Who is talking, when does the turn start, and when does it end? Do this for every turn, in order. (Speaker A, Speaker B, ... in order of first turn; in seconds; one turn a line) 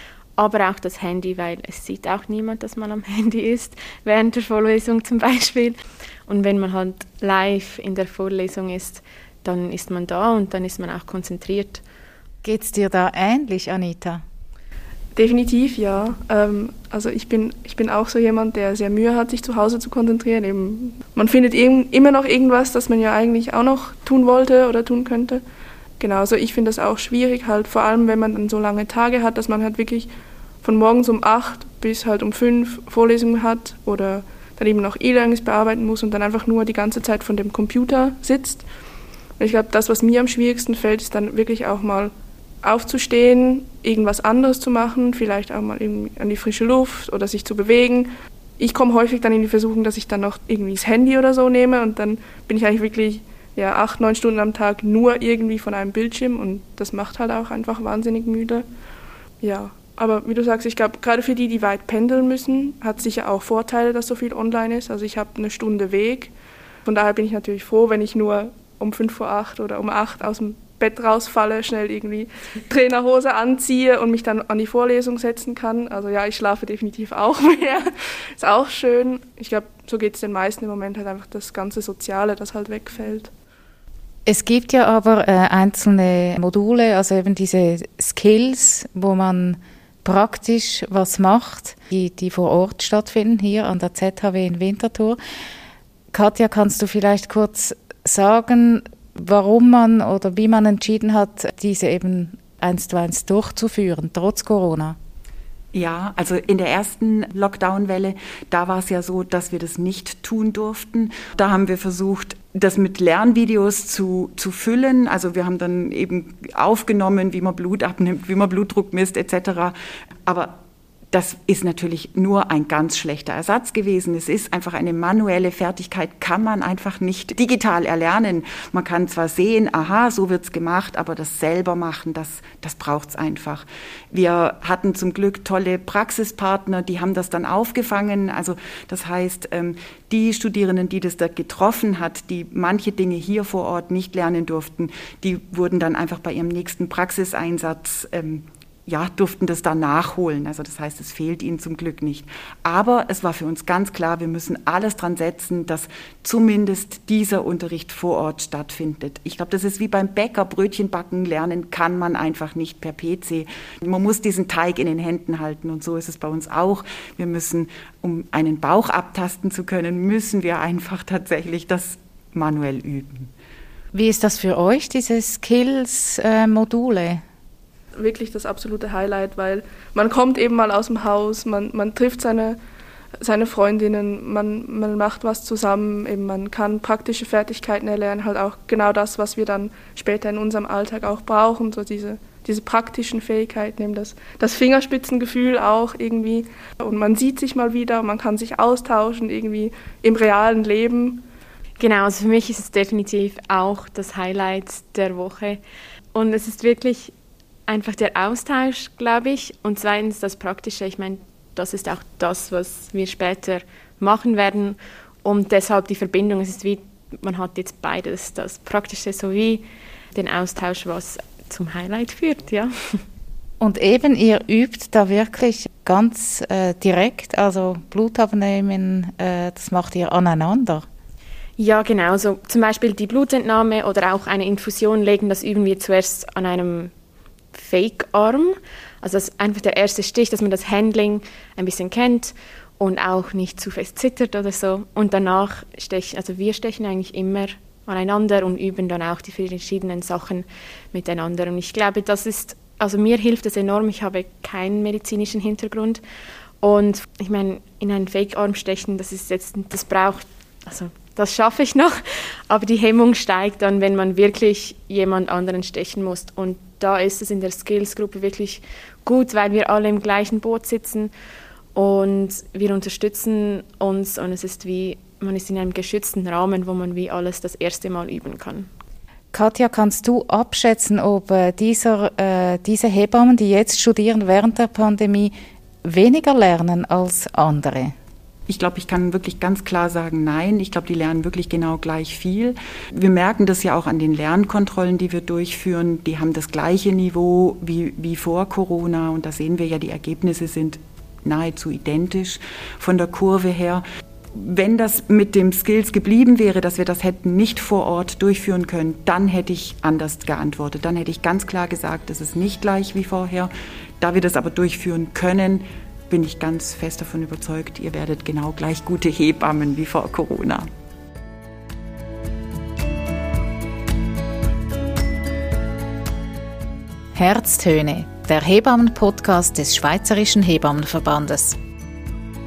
Speaker A: 0.4-11.8
Speaker B: 12.4-14.2
Speaker C: 15.2-25.4
Speaker C: 26.0-30.1
Speaker C: 30.6-38.6
Speaker C: 39.4-42.1
Speaker C: 42.6-58.6
Speaker C: 59.4-66.3
Speaker C: 66.8-83.3
Speaker B: 84.2-95.2
Speaker B: 96.1-105.0
Speaker D: 105.7-119.7
Speaker D: 120.3-120.5
Speaker D: 121.1-173.3
Speaker B: 173.9-177.2
Speaker C: 178.0-182.6
Speaker C: 183.2-201.2
Speaker A: 201.8-205.6
Speaker A: 206.1-207.1
Speaker A: 207.7-222.7
Speaker B: 223.6-230.8
Speaker A: 231.6-236.9
Speaker A: 237.5-256.0
Speaker A: 256.6-271.1
Speaker A: 271.7-278.7
Speaker B: 279.3-285.3
Speaker B: 285.8-287.9
Speaker D: 288.5-303.8
Speaker D: 304.3-320.6
Speaker B: 327.1-331.6